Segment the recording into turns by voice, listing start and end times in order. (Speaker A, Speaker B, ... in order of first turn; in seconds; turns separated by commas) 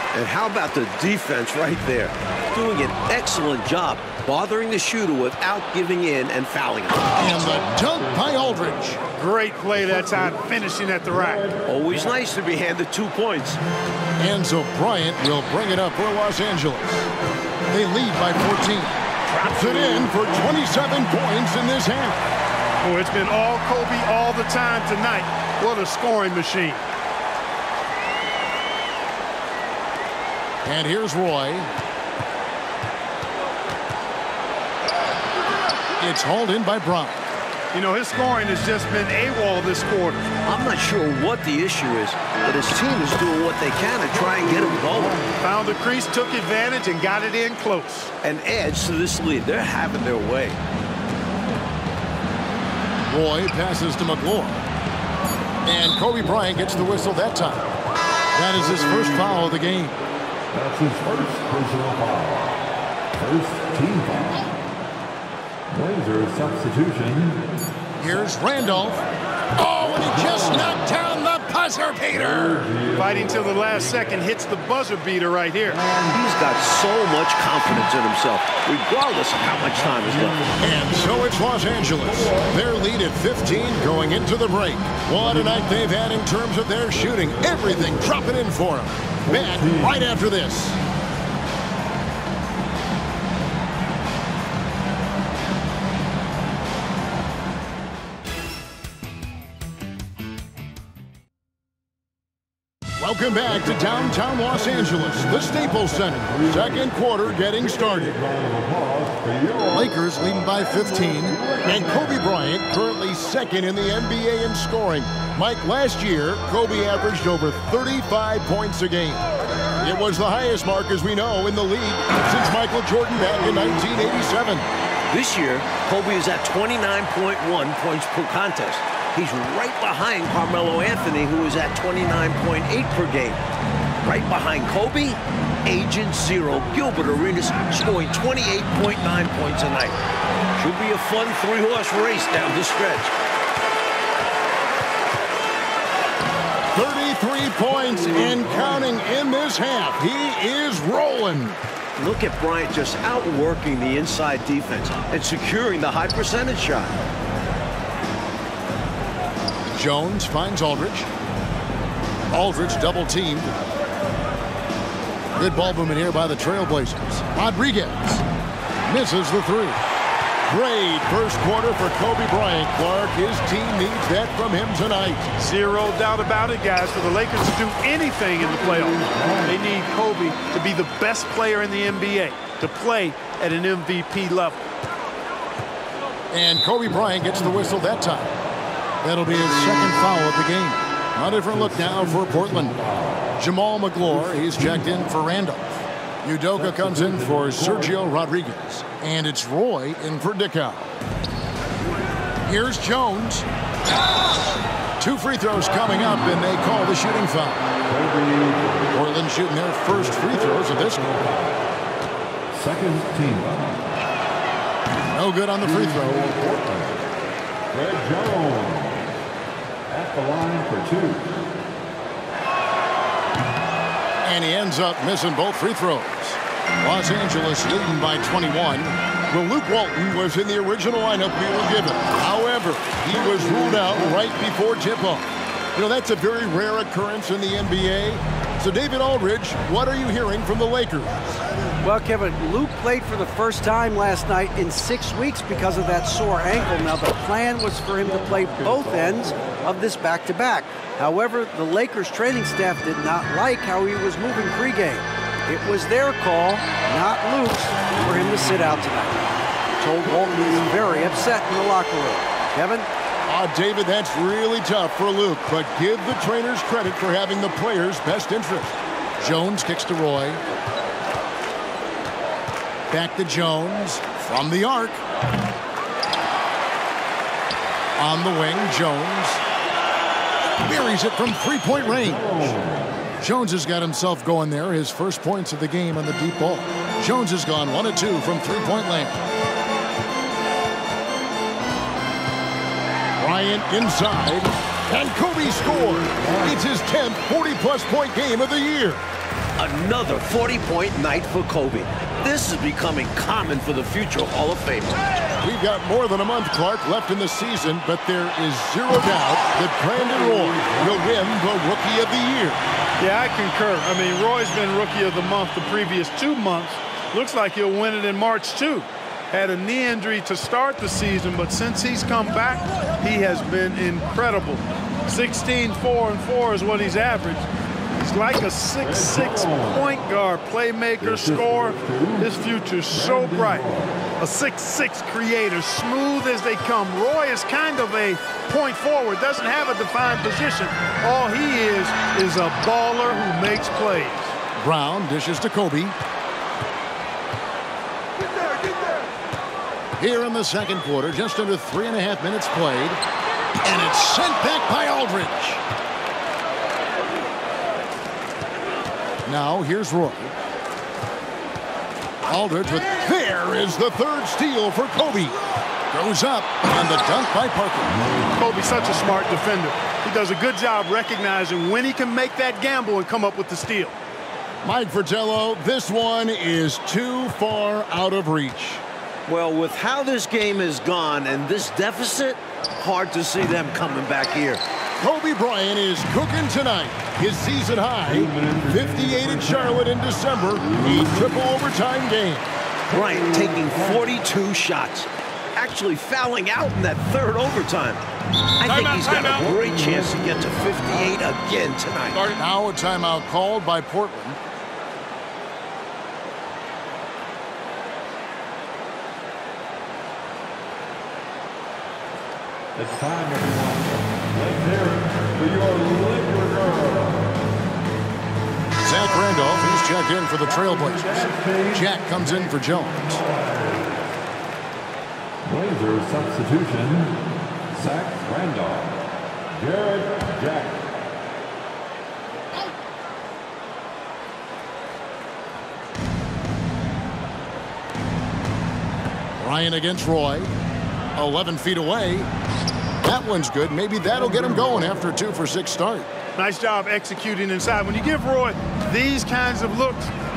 Speaker A: 0.1-7.2, Speaker B: 7.2-9.0, Speaker C: 9.2-11.5, Speaker A: 11.6-13.6, Speaker B: 14.2-17.1, Speaker B: 17.7-22.2, Speaker C: 22.8-26.8, Speaker B: 30.6-31.7, Speaker B: 36.0-37.2, Speaker C: 37.7-40.3, Speaker A: 40.5-45.2, Speaker C: 45.4-48.1, Speaker A: 48.2-50.6, Speaker B: 53.1-54.6, Speaker B: 55.6-57.7, Speaker B: 58.3-60.0, Speaker D: 60.5-62.5, Speaker D: 63.1-64.5, Speaker D: 65.7-67.4, Speaker B: 68.0-72.6, Speaker D: 72.3-73.7, Speaker C: 73.0-75.8, Speaker D: 75.7-76.1, Speaker A: 76.0-80.4, Speaker D: 79.8-82.5, Speaker B: 80.6-90.8, Speaker D: 87.1-87.7, Speaker D: 89.3-90.0, Speaker B: 103.0-108.1, Speaker D: 104.5-109.9, Speaker B: 109.7-119.2, Speaker B: 119.8-124.7, Speaker A: 125.1-133.4, Speaker A: 134.0-140.0, Speaker A: 140.6-143.1, Speaker B: 146.7-151.6, Speaker D: 148.1-148.7, Speaker A: 152.0-156.9, Speaker B: 159.7-161.1, Speaker B: 162.3-163.5, Speaker B: 165.3-168.2, Speaker B: 168.8-169.8, Speaker B: 170.4-175.3, Speaker C: 175.4-184.7, Speaker D: 179.1-179.5, Speaker B: 186.3-188.3, Speaker B: 189.0-192.8, Speaker D: 191.6-193.3, Speaker B: 193.4-200.9, Speaker D: 196.6-198.0, Speaker B: 202.4-203.4, Speaker B: 205.0-207.7, Speaker D: 207.8-208.9, Speaker B: 208.9-211.0, Speaker D: 209.9-211.6, Speaker D: 212.5-213.9, Speaker B: 215.1-216.3, Speaker D: 215.6-217.0, Speaker D: 217.7-219.0, Speaker D: 219.9-221.3, Speaker B: 224.2-241.2, Speaker E: 241.8-259.2, Speaker D: 248.0-249.3, Speaker E: 259.8-262.9, Speaker B: 263.3-270.4, Speaker B: 272.9-275.0, Speaker B: 277.9-279.4, Speaker B: 280.6-282.5, Speaker D: 281.9-283.1, Speaker B: 283.2-289.2, Speaker B: 293.2-299.0, Speaker D: 296.1-296.6, Speaker A: 299.6-305.1, Speaker B: 305.4-312.6, Speaker D: 310.1-311.0, Speaker C: 313.0-333.7, Speaker D: 328.8-329.8, Speaker D: 331.0-332.3, Speaker D: 332.9-333.9, Speaker C: 334.2-344.3, Speaker B: 344.6-345.9, Speaker B: 350.0-353.0, Speaker B: 353.6-355.6, Speaker B: 359.2-360.3, Speaker B: 362.2-365.4, Speaker B: 365.9-368.1, Speaker C: 368.4-373.9, Speaker B: 374.6-378.8, Speaker A: 379.3-384.6, Speaker B: 385.0-392.5, Speaker D: 388.1-389.8, Speaker D: 390.6-391.2, Speaker A: 392.9-398.0, Speaker A: 398.6-402.4, Speaker B: 402.3-404.4, Speaker D: 412.7-417.3, Speaker B: 418.8-423.2, Speaker D: 420.4-424.1, Speaker D: 425.4-427.2, Speaker D: 427.7-429.0, Speaker D: 429.6-430.9, Speaker B: 439.4-440.5, Speaker B: 441.1-442.3, Speaker B: 443.0-446.1, Speaker C: 446.4-450.1